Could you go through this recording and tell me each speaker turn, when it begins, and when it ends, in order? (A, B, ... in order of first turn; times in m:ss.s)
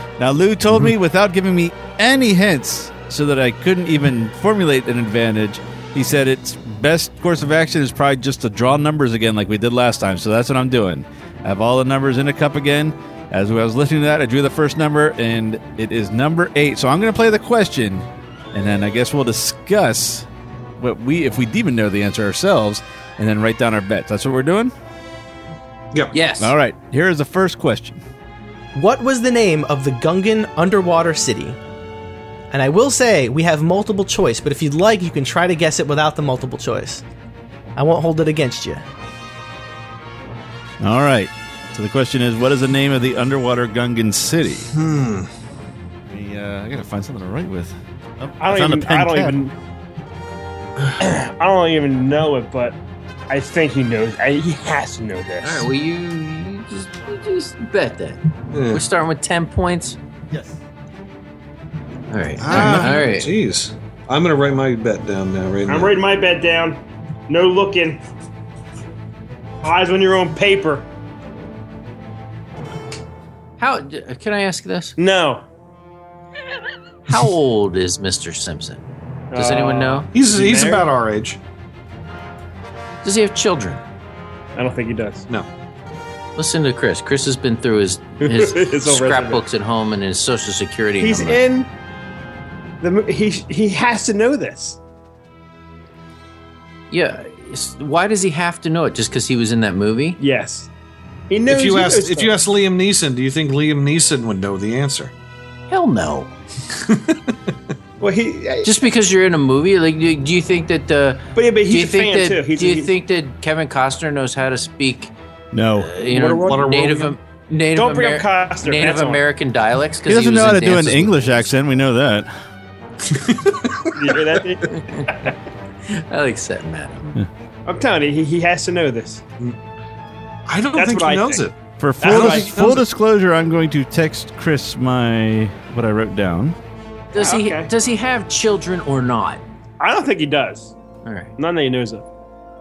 0:00.2-0:20.2 A
0:20.8-0:24.7 A
0:26.1-0:26.6 B
0:26.4-0:28.0 A
0:28.7-0:31.6 C
0:32.5-0:37.0 C
0:37.8-0:38.8 C
0:40.8-0:44.7 A
0:44.7-0:45.3 D
0:46.1-0:49.3 A
0:48.4-0:49.5 E
0:51.0-0:52.8 E
0:53.3-0:55.7 E
0:55.4-1:00.0 B
0:58.5-0:58.8 D
1:02.1-1:03.3 B
1:02.4-1:06.0 D
1:05.7-1:08.0 E
1:09.6-1:10.9 E
1:13.6-1:15.0 B
1:15.0-1:15.4 E
1:17.1-1:20.1 B
1:19.3-1:20.9 E
1:20.1-1:21.4 D
1:23.0-1:23.8 B
1:24.5-1:25.3 E
1:26.4-1:31.4 B
1:28.2-1:29.4 E
1:31.0-1:31.7 E
1:32.8-1:34.8 E
1:36.9-1:40.2 B
1:40.2-1:40.7 E
1:41.3-1:42.4 E
1:41.5-1:45.1 D
1:45.7-1:46.3 B
1:46.8-1:47.2 D
1:48.0-1:48.7 E
1:48.6-1:55.1 B
1:51.4-1:52.9 E
1:55.5-1:55.9 A
1:55.8-2:01.5 B
1:56.1-1:56.6 E
1:56.2-1:57.2 D
1:57.7-1:59.2 E
2:00.1-2:02.3 A
2:03.1-2:04.0 D
2:03.9-2:05.3 E
2:04.7-2:05.1 B
2:05.8-2:07.1 B
2:07.6-2:09.2 E
2:10.5-2:12.9 D
2:10.7-2:11.5 E
2:11.8-2:16.6 A
2:12.0-2:12.5 E
2:17.1-2:19.4 B
2:17.2-2:17.7 E
2:19.8-2:20.7 E
2:21.0-2:21.3 B
2:21.4-2:22.0 E